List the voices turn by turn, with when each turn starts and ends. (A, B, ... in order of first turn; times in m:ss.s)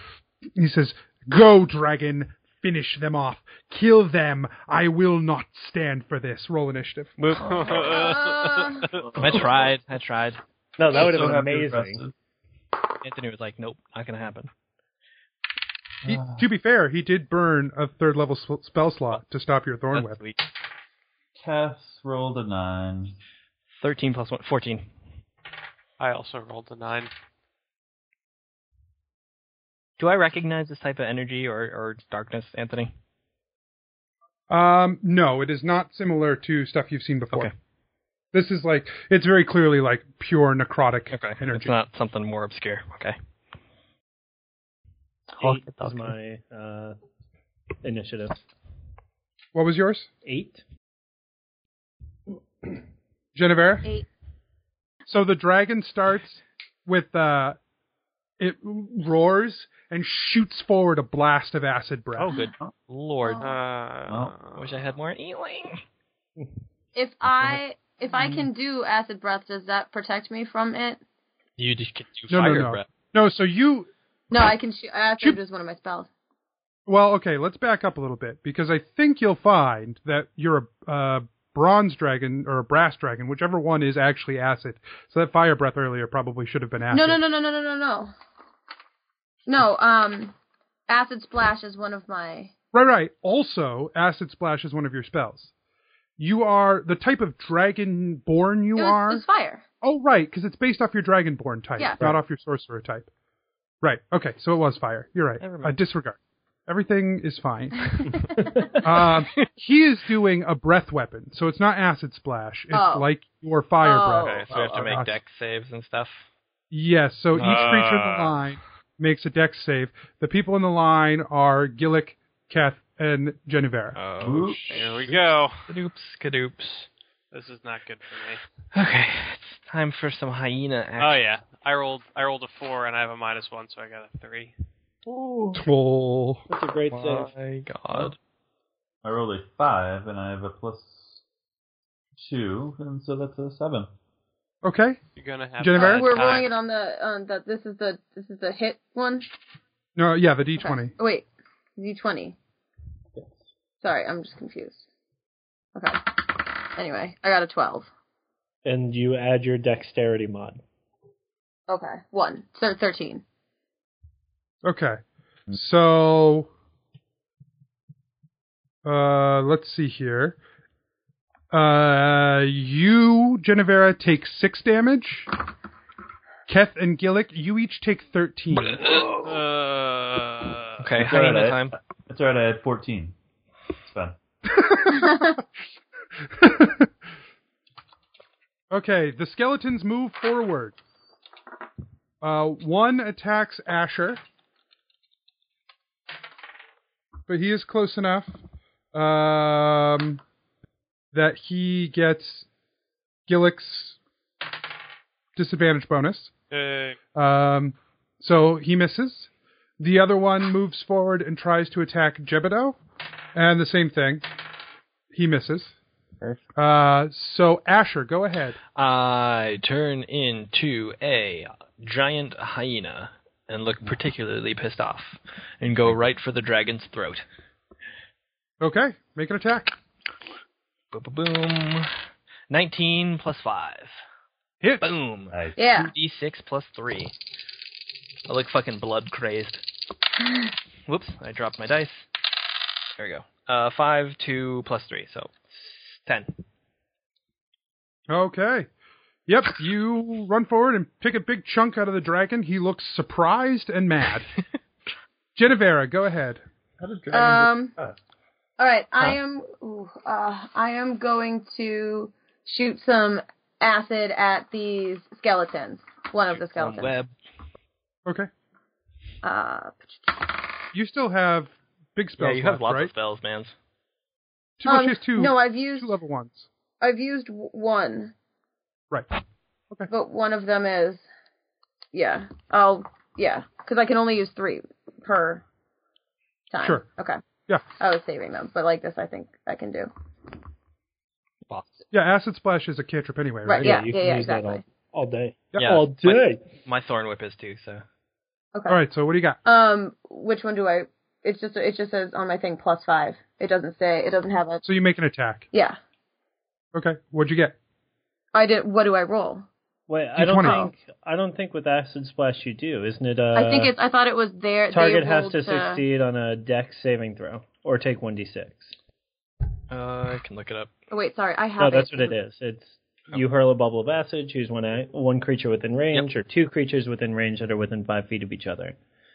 0:00.6-0:07.2 A
0:07.3-0:09.1 B
0:07.4-0:08.0 C
0:07.7-0:08.9 D
0:09.2-0:09.7 C
0:09.2-0:10.4 E
0:10.8-0:12.0 F
0:10.9-0:12.1 C
0:13.0-0:14.5 E
0:16.0-0:16.4 C
0:16.0-0:20.2 A
0:19.9-0:20.4 E
0:21.4-0:23.2 C
0:23.8-0:24.9 E
0:26.0-0:27.1 B
0:30.0-0:32.9 E
0:34.5-0:37.5 A
0:38.3-0:41.7 A
0:41.1-0:43.2 E
0:45.4-0:46.2 E
0:45.4-0:47.0 F
0:47.8-0:48.4 F
0:49.5-0:50.1 A
0:50.2-0:50.6 F
0:53.3-0:53.9 A
0:55.1-0:57.6 A
0:58.4-1:02.3 A
1:02.2-1:03.5 E
1:03.2-1:03.5 D
1:03.4-1:04.9 B
1:04.1-1:04.3 C
1:04.6-1:05.8 E
1:06.9-1:11.0 D
1:11.6-1:12.8 E
1:12.3-1:13.9 A
1:14.3-1:16.1 D
1:16.9-1:27.2 A
1:26.9-1:28.1 D
1:29.4-1:30.3 D
1:30.9-1:32.5 D
1:32.7-1:35.5 A
1:36.2-1:39.2 A
1:38.8-1:39.6 D
1:39.8-1:43.1 A
1:41.8-1:42.1 D
1:43.8-1:47.9 A
1:45.4-1:45.8 E
1:48.4-1:48.8 F
1:48.8-1:55.2 A
1:52.7-1:53.1 D
1:53.8-1:54.5 D
1:54.2-1:56.2 E
1:56.7-2:04.0 A
1:57.4-1:58.3 B
1:57.4-1:57.7 E
2:04.0-2:06.9 E
2:04.2-2:04.9 C
2:04.7-2:05.7 B
2:07.3-2:08.4 B
2:08.7-2:11.3 E
2:11.0-2:14.5 B
2:15.0-2:15.6 E
2:15.5-2:16.4 A
2:16.5-2:17.3 F
2:16.9-2:18.2 E
2:19.0-2:21.2 C
2:22.2-2:23.9 C
2:24.6-2:25.0 A
2:25.2-2:26.5 B
2:25.6-2:26.1 A
2:25.8-2:29.3 D
2:30.0-2:30.9 A
2:30.6-2:31.2 D
2:31.8-2:32.4 D
2:33.8-2:34.8 D
2:35.7-2:37.9 D
2:38.6-2:40.6 F
2:41.7-2:43.2 D
2:44.6-2:45.0 A
2:45.5-2:46.5 A
2:48.8-2:50.4 A
2:51.5-2:55.3 A
2:56.5-2:58.8 A
2:58.6-2:59.4 E
2:59.2-3:00.8 B
3:00.8-3:01.8 E
3:01.0-3:03.1 C
3:03.8-3:04.2 C
3:04.6-3:05.2 A
3:05.0-3:05.3 D
3:06.3-3:06.9 A
3:08.7-3:10.8 A
3:12.2-3:14.2 A
3:17.3-3:18.3 A
3:18.9-3:20.2 A
3:21.1-3:22.5 A
3:23.3-3:24.0 A
3:25.4-3:26.3 A
3:26.5-3:27.0 B
3:27.1-3:32.8 A
3:33.3-3:34.2 A
3:35.1-3:35.7 A
3:36.6-3:38.6 A
3:38.8-3:47.2 E
3:48.6-3:49.7 A
3:50.9-3:51.9 E
3:52.5-3:54.0 E
3:54.6-3:54.9 A
3:54.8-3:57.1 E
3:55.3-3:55.6 C
3:55.6-3:55.9 D
3:58.2-3:59.6 E
4:00.9-4:02.1 E
4:03.0-4:06.4 E
4:08.1-4:08.7 A
4:09.3-4:14.3 A
4:15.4-4:16.4 A
4:16.8-4:18.0 C
4:17.1-4:17.7 D
4:18.6-4:27.0 D
4:26.3-4:27.1 E
4:29.2-4:30.2 D
4:30.7-4:32.9 A
4:32.2-4:33.5 E
4:34.6-4:36.5 A
4:34.6-4:36.0 D
4:36.8-4:38.1 D
4:39.9-4:41.0 D
4:41.9-4:45.4 D
4:46.5-4:47.2 D
4:47.8-4:49.9 D
4:51.5-4:51.8 E
4:51.9-4:53.8 A
4:53.4-4:54.6 D
4:53.6-4:56.4 F
4:55.6-4:57.8 E
4:58.7-4:59.4 A
4:59.4-5:04.6 D
5:04.6-5:05.4 A
5:05.5-5:05.8 D
5:06.7-5:07.6 A
5:08.3-5:09.4 D
5:09.9-5:13.7 F
5:10.2-5:10.7 A
5:13.3-5:15.8 D
5:14.7-5:18.7 F
5:19.7-5:20.7 E
5:20.9-5:22.1 D
5:21.6-5:28.8 F